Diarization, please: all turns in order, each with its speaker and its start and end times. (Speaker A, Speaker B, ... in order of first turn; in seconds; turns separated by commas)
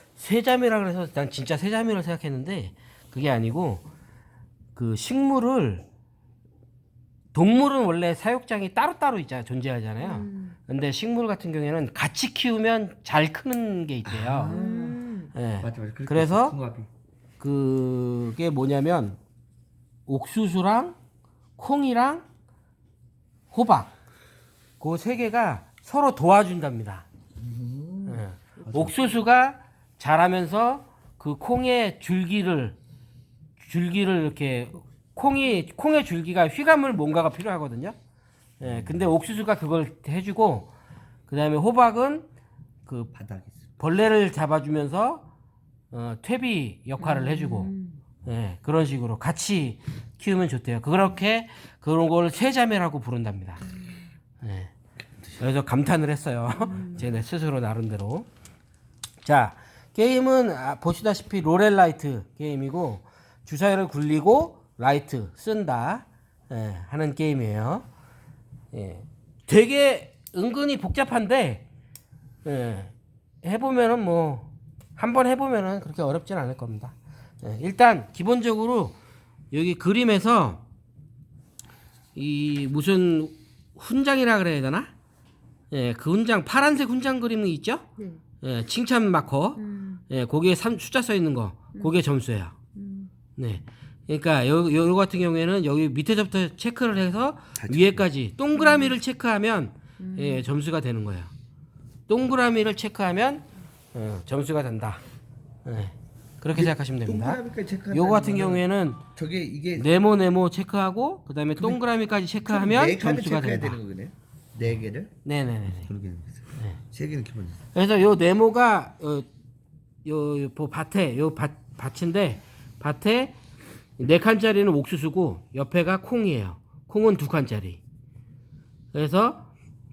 Speaker A: 0.1-3.8, Speaker A: 4.7-5.8, Speaker A: 7.3-14.5, Speaker B: 10.0-10.6, Speaker C: 14.0-15.0, Speaker B: 14.5-15.3, Speaker A: 15.3-16.6, Speaker C: 15.6-16.9, Speaker A: 17.4-19.2, Speaker A: 20.1-20.9, Speaker A: 21.6-22.2, Speaker A: 23.5-23.9, Speaker A: 24.8-27.0, Speaker C: 27.4-29.1, Speaker A: 28.1-32.8, Speaker B: 28.6-29.2, Speaker A: 33.6-37.9, Speaker A: 38.6-40.7, Speaker C: 38.6-39.1, Speaker A: 41.3-42.2, Speaker C: 43.0-43.7, Speaker A: 43.8-45.2, Speaker A: 45.9-47.7, Speaker B: 47.0-48.0, Speaker A: 48.2-53.6, Speaker A: 54.4-54.7, Speaker A: 55.4-58.3, Speaker B: 56.5-57.1, Speaker A: 59.2-67.8, Speaker A: 68.7-71.6, Speaker A: 72.4-79.0, Speaker A: 79.5-80.6, Speaker A: 82.1-84.9, Speaker A: 85.7-87.8, Speaker B: 88.0-88.2, Speaker A: 88.4-92.5, Speaker B: 89.5-90.0, Speaker B: 92.7-93.1, Speaker A: 93.4-101.3, Speaker C: 97.5-98.1, Speaker B: 98.5-99.0, Speaker B: 100.0-100.5, Speaker A: 102.1-105.0, Speaker A: 105.6-109.0, Speaker C: 106.5-109.9, Speaker A: 109.8-113.8, Speaker C: 112.4-115.1, Speaker A: 115.2-115.9, Speaker C: 115.8-117.6, Speaker A: 117.7-119.3, Speaker A: 120.0-123.3, Speaker A: 124.0-127.8, Speaker A: 128.9-129.5